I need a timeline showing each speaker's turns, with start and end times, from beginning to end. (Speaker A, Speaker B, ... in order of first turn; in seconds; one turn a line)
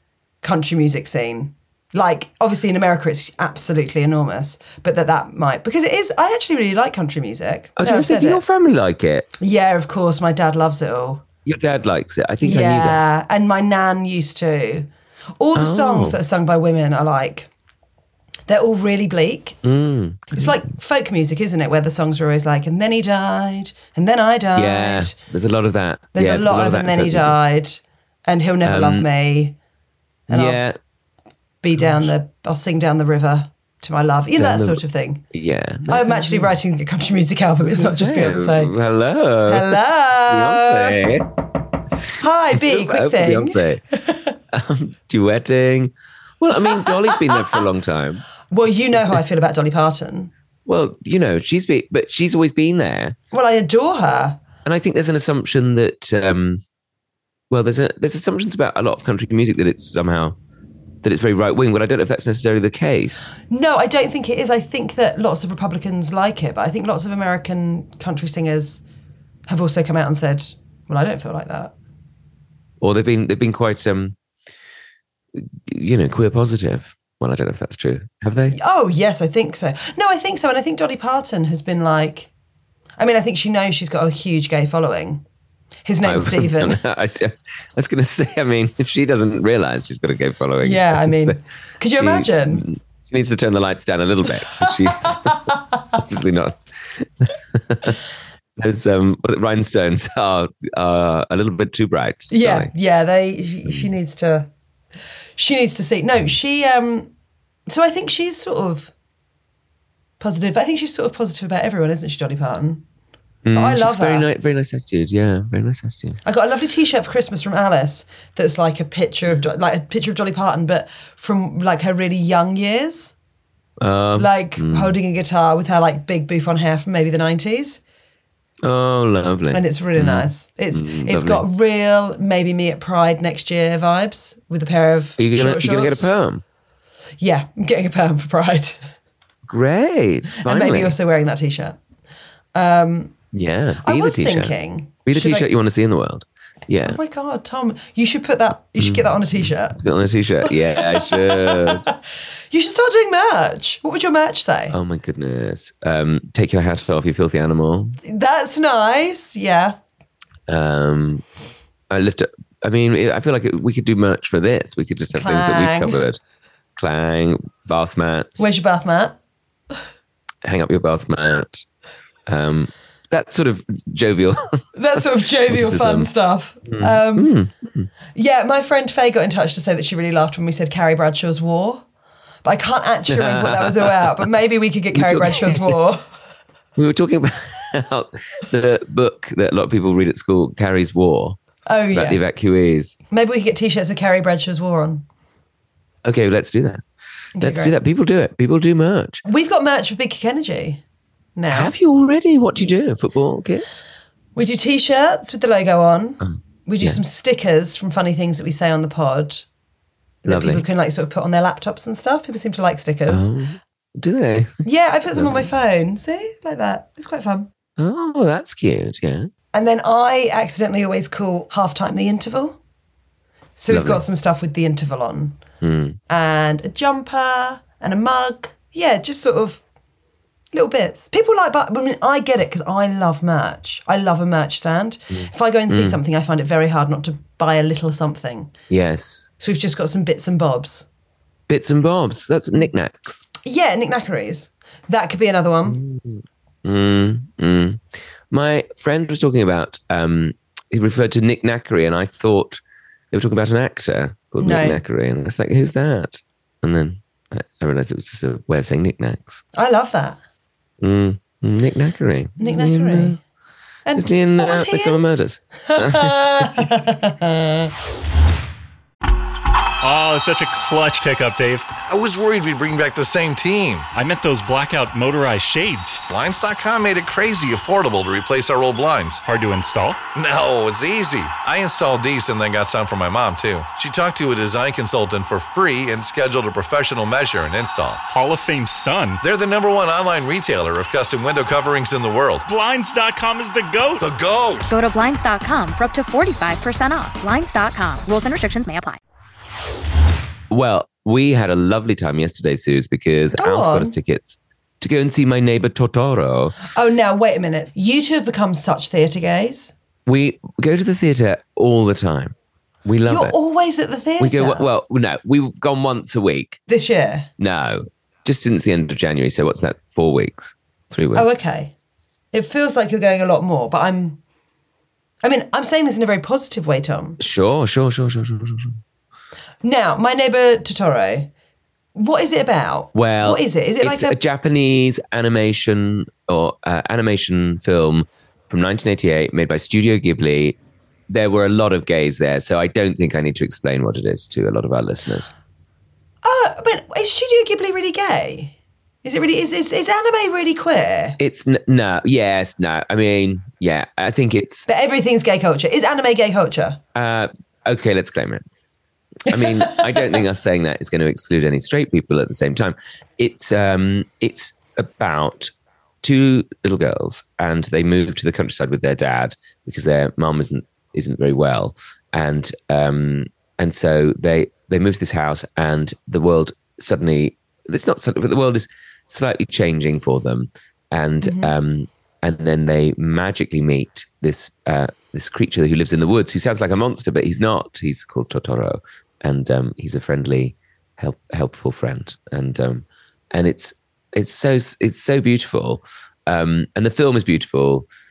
Speaker A: 0.4-8.4
Speaker B: 7.8-9.3
Speaker A: 9.4-11.2
Speaker B: 11.4-13.0
Speaker A: 12.4-17.5
Speaker B: 15.6-16.2
Speaker A: 18.5-19.6
Speaker B: 19.6-20.6
Speaker A: 20.3-25.1
Speaker B: 24.6-27.4
Speaker A: 26.1-29.6
Speaker B: 28.6-29.1
Speaker A: 30.3-30.6
Speaker B: 30.3-30.8
Speaker A: 31.6-35.2
Speaker B: 31.8-32.1
Speaker B: 34.4-36.6
Speaker A: 35.9-38.7
Speaker B: 37.6-41.3
Speaker A: 39.5-41.1
Speaker A: 42.1-44.4
Speaker B: 42.5-43.8
Speaker B: 44.5-48.2
Speaker A: 46.7-47.6
Speaker A: 48.5-50.3
Speaker B: 50.7-53.2
Speaker A: 53.3-54.4
Speaker B: 54.6-56.6
Speaker B: 57.5-60.4
Speaker B: 61.0-63.3
Speaker A: 63.5-68.8
Speaker A: 69.5-71.7
Speaker B: 72.8-74.2
Speaker B: 75.4-78.6
Speaker A: 78.5-82.3
Speaker A: 83.0-85.2
Speaker A: 85.9-86.8
Speaker B: 86.0-91.4
Speaker A: 90.6-92.7
Speaker B: 91.9-98.0
Speaker A: 94.6-96.0
Speaker B: 98.6-102.7
Speaker A: 102.3-104.5
Speaker A: 105.4-107.1
Speaker A: 107.7-108.9
Speaker A: 110.2-112.8
Speaker B: 113.4-116.2
Speaker A: 113.5-114.3
Speaker A: 116.2-123.2
Speaker B: 123.8-125.0
Speaker A: 124.2-127.8
Speaker B: 128.6-131.5
Speaker A: 129.5-136.1
Speaker B: 135.2-136.4
Speaker A: 137.2-138.9
Speaker B: 139.5-141.0
Speaker A: 140.4-141.8
Speaker A: 142.6-143.1
Speaker B: 143.3-147.0
Speaker A: 143.8-145.5
Speaker A: 146.8-149.8
Speaker B: 148.8-151.8
Speaker A: 150.5-151.9
Speaker A: 152.5-154.8
Speaker B: 154.7-158.0
Speaker A: 158.0-159.8
Speaker B: 160.5-161.2
Speaker B: 161.9-166.2
Speaker A: 165.2-166.0
Speaker B: 166.8-168.4
Speaker A: 168.4-169.2
Speaker B: 170.4-171.7
Speaker B: 172.3-176.1
Speaker A: 174.8-177.3
Speaker B: 176.7-177.9
Speaker A: 178.2-181.8
Speaker A: 182.4-186.1
Speaker B: 183.1-184.2
Speaker B: 184.9-185.8
Speaker B: 186.8-191.4
Speaker A: 191.7-192.2
Speaker B: 191.9-193.0
Speaker A: 193.1-195.1
Speaker B: 196.0-196.8
Speaker A: 197.4-197.8
Speaker B: 197.4-199.2
Speaker A: 199.2-200.8
Speaker A: 201.4-201.7
Speaker B: 201.5-203.8
Speaker A: 204.4-209.5
Speaker A: 210.2-213.3
Speaker B: 210.2-210.7
Speaker B: 213.1-215.5
Speaker A: 214.6-217.5
Speaker B: 217.8-219.3
Speaker A: 219.5-222.6
Speaker A: 223.6-225.4
Speaker B: 223.7-224.0
Speaker B: 225.6-226.0
Speaker A: 226.1-229.6
Speaker A: 230.5-238.5
Speaker B: 235.1-236.0
Speaker B: 238.7-239.3
Speaker A: 239.4-240.9
Speaker B: 241.5-243.3
Speaker A: 243.4-245.8
Speaker B: 245.7-252.6
Speaker B: 253.1-259.4
Speaker A: 254.4-254.8
Speaker A: 259.6-260.2
Speaker B: 260.8-263.2
Speaker A: 262.4-263.2
Speaker A: 263.9-265.0
Speaker B: 263.9-266.8
Speaker A: 265.7-267.7
Speaker C: 269.8-271.7
Speaker D: 271.8-273.9
Speaker C: 273.9-276.0
Speaker D: 276.1-279.2
Speaker C: 279.2-280.0
Speaker D: 280.1-288.0
Speaker C: 288.1-289.2
Speaker D: 289.2-292.5
Speaker C: 292.5-294.1
Speaker D: 294.0-294.7
Speaker E: 294.7-299.0
Speaker B: 300.5-306.6
Speaker A: 303.4-303.9
Speaker A: 306.8-309.7
Speaker B: 310.1-313.4
Speaker A: 313.1-314.7
Speaker B: 314.2-316.6
Speaker A: 316.7-317.3
Speaker B: 317.4-321.3
Speaker A: 321.1-321.7
Speaker A: 322.3-324.2
Speaker A: 325.2-327.2
Speaker B: 327.2-328.8
Speaker A: 329.6-331.3
Speaker A: 331.9-334.2
Speaker B: 332.9-340.6
Speaker B: 341.1-345.3
Speaker A: 346.2-351.2
Speaker B: 351.2-354.7
Speaker A: 354.7-356.8
Speaker B: 356.9-358.4
Speaker B: 359.3-397.9
Speaker A: 359.3-360.2
Speaker A: 381.2-381.5